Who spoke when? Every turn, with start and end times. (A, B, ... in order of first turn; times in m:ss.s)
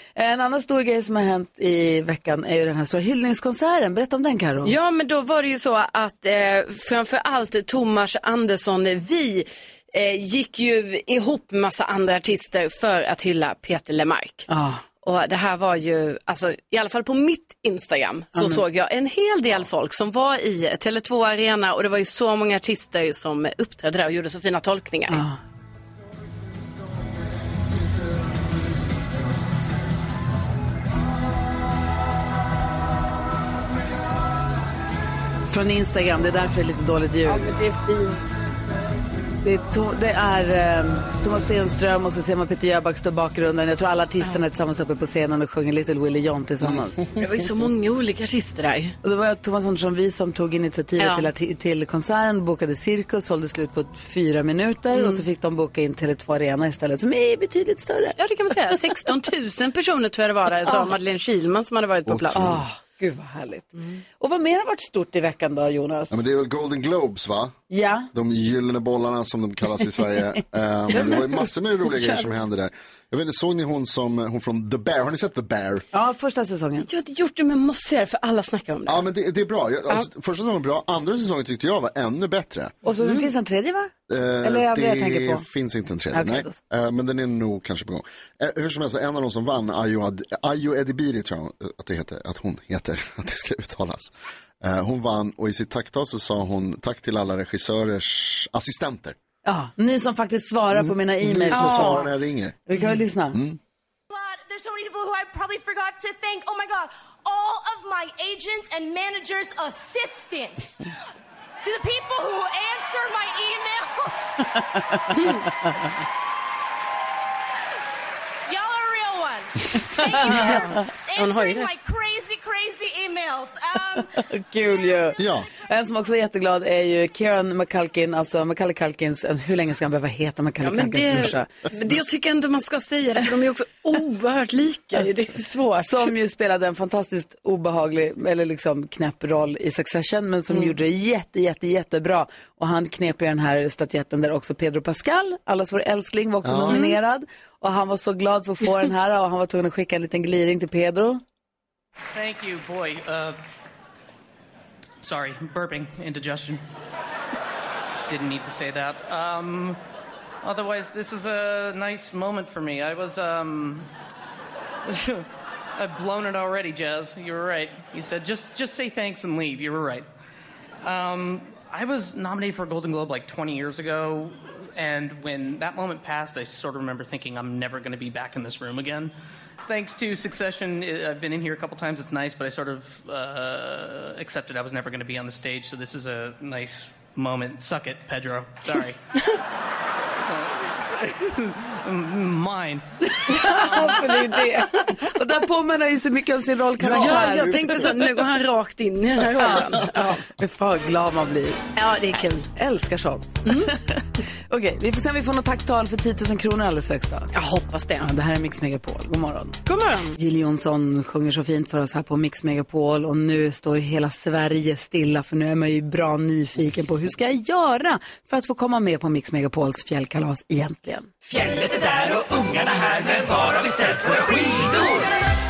0:00.2-0:04.7 A
0:04.6-0:14.5 B
0:14.5-0:14.8 A
0:15.0-0:25.2 B
0:18.4-0:18.6 A
0:25.1-0:25.4 A
0:35.5-0:37.4 A
0:37.2-0:38.2 B
0:39.4-0:47.0 A
0:46.6-0:47.0 C
0:47.2-0:49.0 B
0:49.0-0:58.2 A
0:51.0-0:51.3 B
0:54.9-0:55.2 B
0:58.2-1:02.6 B
1:00.7-1:00.9 A
1:02.1-1:02.6 C
1:02.3-1:06.1 A
1:06.1-1:07.6 C
1:07.7-1:08.1 A
1:08.1-1:15.8 C
1:10.9-1:11.3 B
1:11.9-1:12.2 B
1:15.9-1:16.9 A
1:16.8-1:19.0 B
1:18.9-1:22.7 C
1:22.8-1:23.9 A
1:23.0-1:23.3 B
1:24.1-1:39.2 C
1:24.4-1:25.4 A
1:26.1-1:26.6 A
1:39.4-1:42.1 A
1:40.7-1:42.6 C
1:41.5-1:42.0 B
1:42.6-1:43.4 A
1:43.3-1:43.6 C
1:44.1-1:50.8 D
1:51.6-1:54.6 D
1:55.1-1:55.5 B
1:58.4-2:04.2 D
2:00.1-2:01.7 B
2:00.2-2:00.7 A
2:04.2-2:11.5 A
2:05.2-2:05.5 C
2:10.6-2:16.1 B
2:15.8-2:31.2 A
2:26.4-2:26.8 C
2:26.7-2:27.0 B
2:32.1-2:33.4 E
2:35.0-2:36.6 E
2:38.1-2:39.8 E
2:40.4-2:43.9 E
2:44.8-2:50.1 E
2:50.8-2:59.1 E
2:59.7-3:09.0 E
3:10.3-3:12.8 E
3:13.2-3:14.0 A
3:13.3-3:15.0 B
3:15.0-3:17.8 A
3:16.8-3:18.1 C
3:16.9-3:20.2 B
3:19.4-3:21.6 A
3:21.8-3:22.4 B
3:22.5-3:27.3 A
3:23.4-3:23.7 B
3:27.3-3:28.1 B
3:28.0-3:29.6 A
3:29.6-3:30.2 B
3:30.2-3:41.1 A
3:41.3-3:45.0 F